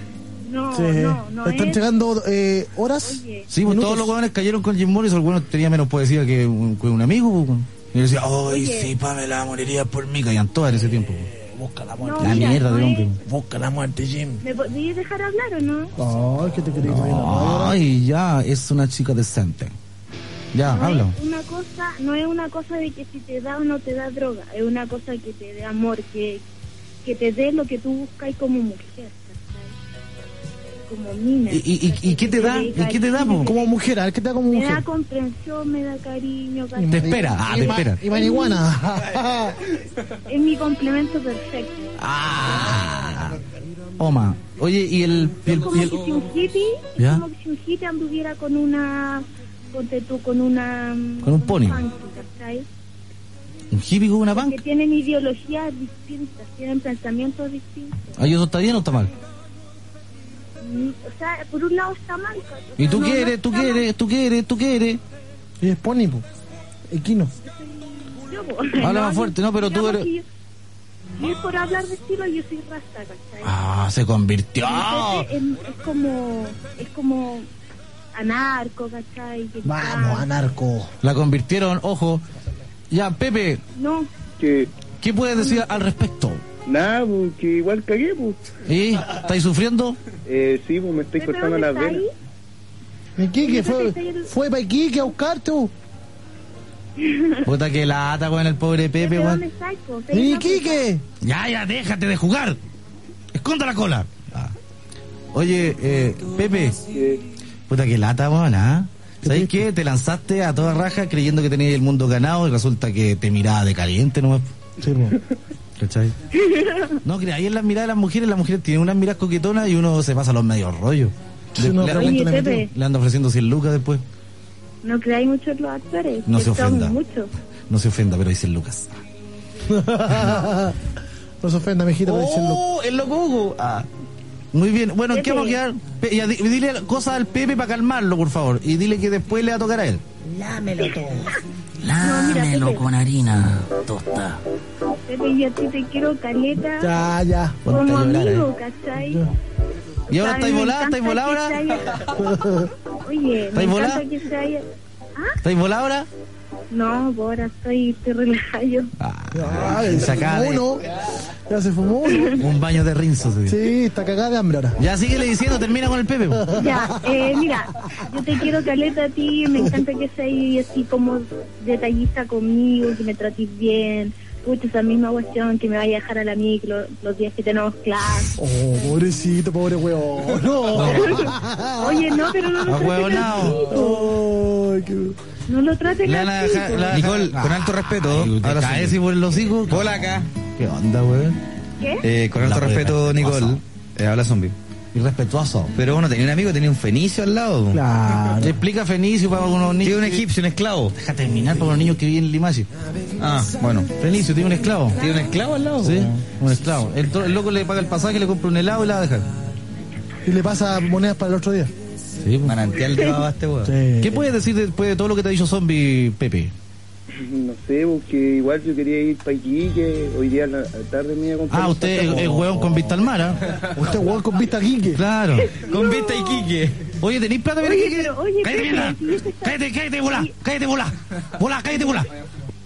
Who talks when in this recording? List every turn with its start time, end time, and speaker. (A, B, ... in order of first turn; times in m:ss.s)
0:00.5-0:01.8 A
0:00.7-0:04.1 B
0:03.0-0:03.5 A
0:03.5-0:11.3 C
0:08.4-0:08.9 A
0:11.3-0:12.6 B
0:12.0-0:13.2 A
0:12.2-0:13.2 C
0:13.2-0:14.4 B
0:14.4-0:15.9 A
0:16.0-0:17.8 B
0:16.8-0:19.7 C
0:20.5-0:21.2 C
0:20.7-0:26.4 A
0:27.0-0:29.7 A
0:30.9-0:33.7 A
0:31.5-0:33.5 C
0:33.4-0:34.8 B
0:34.5-0:38.7 A
0:36.8-0:39.6 B
0:36.9-0:38.0 C
0:40.3-0:41.9 A
0:42.0-0:43.4 C
0:44.0-0:46.0 C
0:45.4-0:52.6 A
0:47.0-0:47.2 C
0:51.2-0:51.8 C
0:53.7-0:54.6 C
0:54.3-0:58.1 A
0:58.2-0:59.1 C
1:00.6-1:03.9 A
1:02.8-1:05.0 C
1:05.6-1:06.2 B
1:06.9-1:07.3 B
1:07.5-1:10.2 A
1:08.8-1:10.1 C
1:11.2-1:13.5 A
1:13.4-1:15.3 C
1:14.6-1:17.5 A
1:18.2-1:20.3 A
1:19.6-1:20.9 B
1:21.0-1:22.2 C
1:22.9-1:23.6 C
1:23.8-1:24.1 A
1:24.4-1:24.7 D
1:25.0-1:26.4 C
1:25.4-1:25.7 A
1:26.7-1:28.4 D
1:28.7-1:30.0 C
1:30.3-1:32.0 D
1:31.2-1:32.1 A
1:33.2-1:35.7 B
1:33.4-1:34.3 A
1:37.0-1:37.4 A
1:37.4-1:39.4 C
1:39.0-1:40.9 A
1:40.1-1:41.0 B
1:41.2-1:42.6 C
1:43.3-1:44.5 C
1:45.3-1:46.8 C
1:46.9-1:47.2 D
1:47.7-1:54.4 C
1:49.2-1:49.7 B
1:54.8-1:55.2 B
1:55.8-1:56.1 C
1:56.3-1:56.9 A
1:57.0-2:04.0 C
2:01.6-2:02.6 B
2:01.9-2:02.7 A
2:04.8-2:07.3 A
2:06.3-2:07.0 C
2:07.7-2:08.9 C
2:09.7-2:10.8 B
2:11.4-2:12.6 B
2:12.1-2:13.9 C
2:14.5-2:20.0 C
2:15.1-2:15.6 A
2:21.8-2:24.4 C
2:22.0-2:22.8 A
2:25.1-2:26.9 A
2:26.8-2:27.6 B
2:27.6-2:28.5 C
2:27.7-2:29.2 A
2:30.1-2:31.6 C
2:30.1-2:31.9 A
2:32.2-2:32.7 B
2:33.0-2:34.6 A
2:33.6-2:34.0 C
2:35.4-2:36.1 C
2:36.7-2:38.9 A
2:39.0-2:40.7 C
2:39.3-2:40.8 B
2:41.5-2:42.4 B
2:42.1-2:42.4 A
2:42.4-2:43.6 C
2:43.5-2:44.8 B
2:44.8-2:46.4 C
2:46.3-2:47.5 B
2:46.5-2:58.3 A
2:58.4-3:02.5 B
3:00.7-3:01.2 C
3:01.0-3:04.1 A
3:02.7-3:03.6 C
3:03.1-3:05.2 B
3:05.5-3:07.0 A
3:06.0-3:10.0 C
3:06.8-3:09.0 E
3:09.7-3:10.3 E
3:10.6-3:11.4 C
3:11.8-3:12.0 A
3:12.0-3:14.5 E
3:12.4-3:13.6 C
3:14.9-3:15.7 C
3:15.7-3:17.8 E
3:17.7-3:18.6 B
3:18.4-3:20.2 C
3:19.8-3:20.9 E
3:21.0-3:22.7 C
3:23.2-3:23.9 E
3:24.0-3:25.0 C
3:25.0-3:26.1 E
3:25.8-3:29.3 C
3:30.3-3:31.7 B
3:32.2-3:32.5 C
3:32.4-3:33.7 E
3:33.6-3:34.3 B
3:34.0-3:36.5 C
3:37.1-3:42.2 D
3:41.5-3:43.4 C
3:42.1-3:45.0 B
3:45.0-3:45.6 C
3:45.5-3:46.4 A
3:45.6-3:46.8 E
3:47.0-3:52.1 C
3:47.6-3:50.3 A